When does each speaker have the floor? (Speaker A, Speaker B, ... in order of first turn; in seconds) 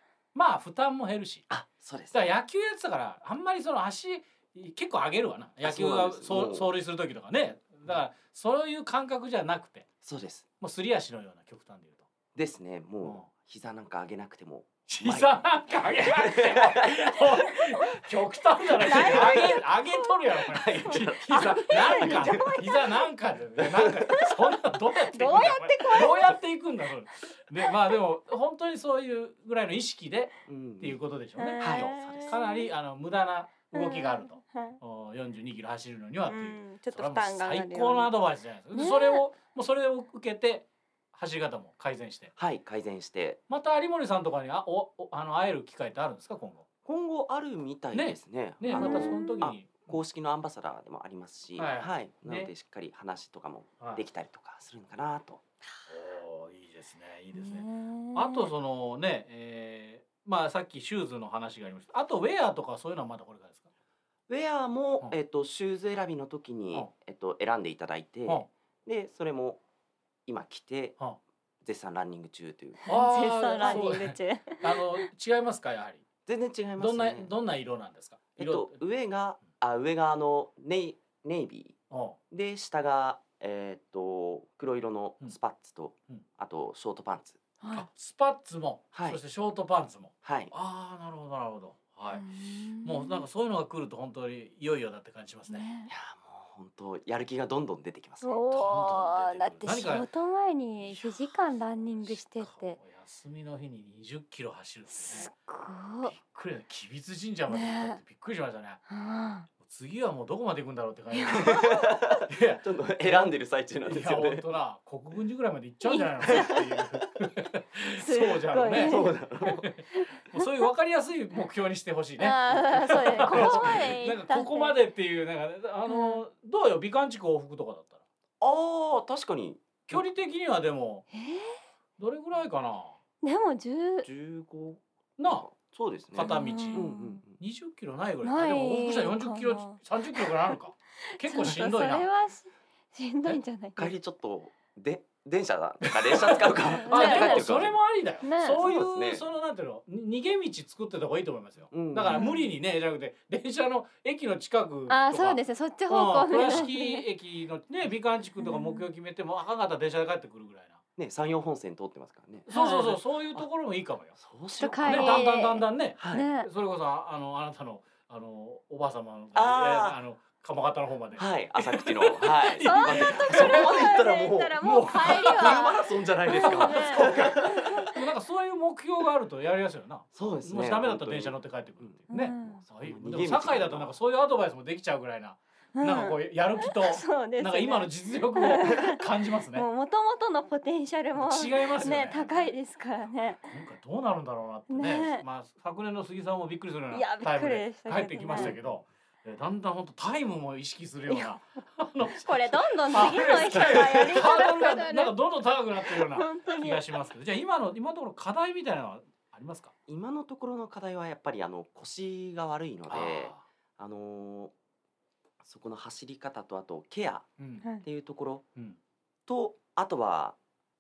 Speaker A: 0.3-1.5, 2.1-9.9, 10.6-12.1, 14.9-42.3, 43.5-46.6, 47.9-50.0, 51.6-52.5, 55.9-63.7, 72.9-76.0, 76.8-78.8, 81.9-82.2, 87.7-92.2, 92.8-95.7, 98.5-100.1, 100.8-105.3, 106.0-108.8, 109.6-128.0, 129.9-131.1, 132.0-133.0, 135.2-135.5, 136.1-142.1, 145.9-160.8, 162.5-164.2, 164.8-174.0, 174.6-175.7, 176.3-189.7, 191.2-192.6, 193.4-209.7, 212.9-213.4, 217.4-217.7
Speaker B: 1.5-2.2, 5.6-6.7, 10.0-10.5, 12.3-17.2, 18.9-19.6, 20.5-22.6, 23.6-23.9, 30.5-31.0, 31.6-32.5, 42.4-43.4, 46.9-55.4, 64.3-69.6, 70.3-71.0, 71.6-72.8, 73.6-74.0, 76.3-77.3, 78.4-81.8, 82.3-87.4, 88.9-89.2, 90.2-90.5, 95.9-98.4, 111.3-114.5, 118.8-119.6, 123.3-123.9, 128.4-130.0, 134.0-137.4, 143.2-147.8, 148.6-149.3, 151.7-152.3, 161.0-163.5, 164.2-165.3, 166.0-166.3, 169.3-170.0, 171.2-177.9, 180.1-183.9, 198.3-198.6, 209.9-214.5, 215.4-217.3, 217.8-218.5, 219.3-220.4
Speaker C: 18.8-22.9, 24.1-24.4, 25.1-26.4, 31.4-32.7, 33.7-34.8, 36.3-38.1, 38.7-39.2, 48.8-49.4, 57.3-58.5, 72.8-75.0, 87.6-87.9, 92.1-93.3, 95.5-95.9, 98.2-102.8, 104.9-106.1, 107.5-108.0, 108.9-109.5, 111.1-112.0, 115.8-116.7, 118.0-120.6, 122.2-124.8, 125.9-126.2, 131.1-131.6, 133.2-134.1, 136.2-137.2, 138.2-143.9, 146.8-147.6, 148.2-148.6, 152.1-152.4, 154.9-157.0, 158.4-158.9, 162.5-162.8, 164.6-166.5, 172.6-177.8, 182.1-182.6, 185.8-193.4, 194.7-195.2, 196.9-198.6, 202.2-205.1, 205.8-207.0